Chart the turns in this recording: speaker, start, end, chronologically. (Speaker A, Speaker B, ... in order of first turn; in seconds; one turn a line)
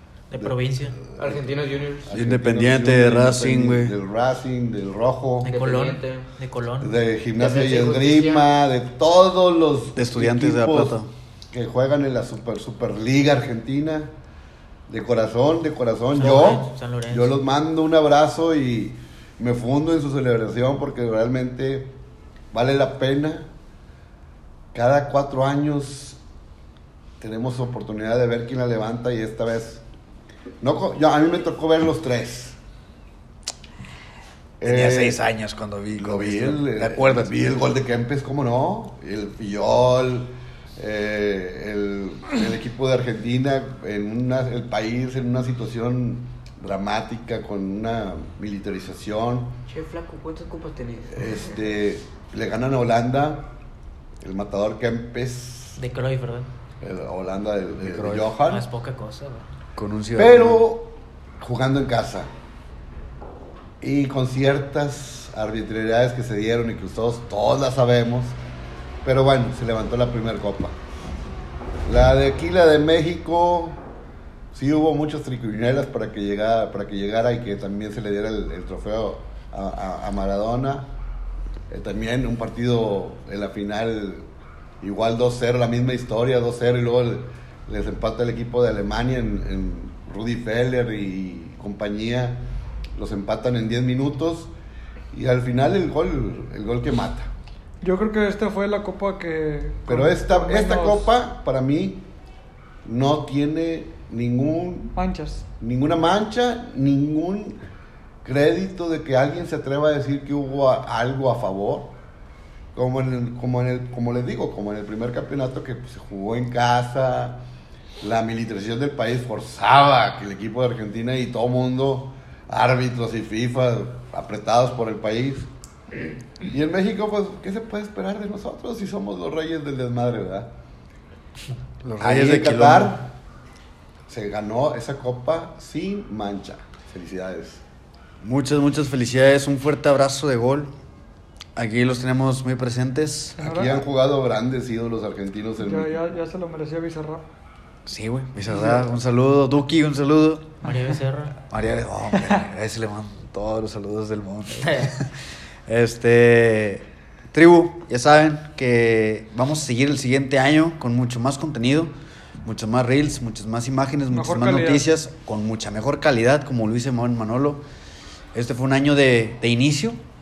Speaker A: 0.3-1.0
Speaker B: 0.4-1.5
Speaker C: 1.2-2.1
Speaker B: 2.0-5.6
Speaker D: 2.1-3.9
Speaker A: 5.4-6.9
Speaker C: 5.5-6.3
Speaker B: 6.8-11.0
Speaker C: 7.4-8.5
Speaker D: 10.0-11.1
Speaker B: 11.5-14.1
Speaker B: 14.9-21.9
Speaker A: 16.1-17.4
Speaker B: 22.5-23.5
Speaker B: 24.7-26.2
Speaker B: 27.2-29.8
Speaker B: 30.6-32.6
Speaker B: 34.6-35.2
Speaker D: 34.6-37.3
Speaker B: 36.0-49.6
Speaker C: 49.7-51.6
Speaker B: 51.1-53.5
Speaker B: 54.2-55.8
Speaker A: 55.8-56.5
Speaker B: 56.8-58.6
Speaker D: 57.8-58.3
Speaker A: 58.5-59.5
Speaker D: 59.8-60.7
Speaker B: 60.2-62.3
Speaker B: 63.8-68.4
Speaker B: 69.0-70.8
Speaker B: 71.9-73.8
Speaker B: 74.5-80.9
Speaker B: 81.7-84.3
Speaker B: 84.8-92.4
Speaker B: 93.0-94.5
Speaker B: 95.1-97.3
Speaker E: 97.8-101.1
Speaker B: 99.9-102.0
Speaker B: 102.8-104.9
Speaker E: 105.0-105.5
Speaker B: 105.6-107.6
Speaker B: 108.2-112.0
Speaker B: 112.8-117.4
Speaker B: 118.0-125.5
Speaker B: 126.4-130.5
Speaker D: 131.8-133.0
Speaker B: 132.0-133.1
Speaker B: 134.1-137.6
Speaker D: 138.2-140.7
Speaker D: 141.6-143.6
Speaker E: 143.4-143.8
Speaker B: 143.4-146.0
Speaker E: 145.6-147.2
Speaker D: 147.9-150.6
Speaker A: 150.6-151.4
Speaker D: 151.5-155.1
Speaker A: 154.6-154.9
Speaker D: 155.7-161.9
Speaker D: 162.4-167.6
Speaker E: 164.1-164.8
Speaker D: 168.3-170.0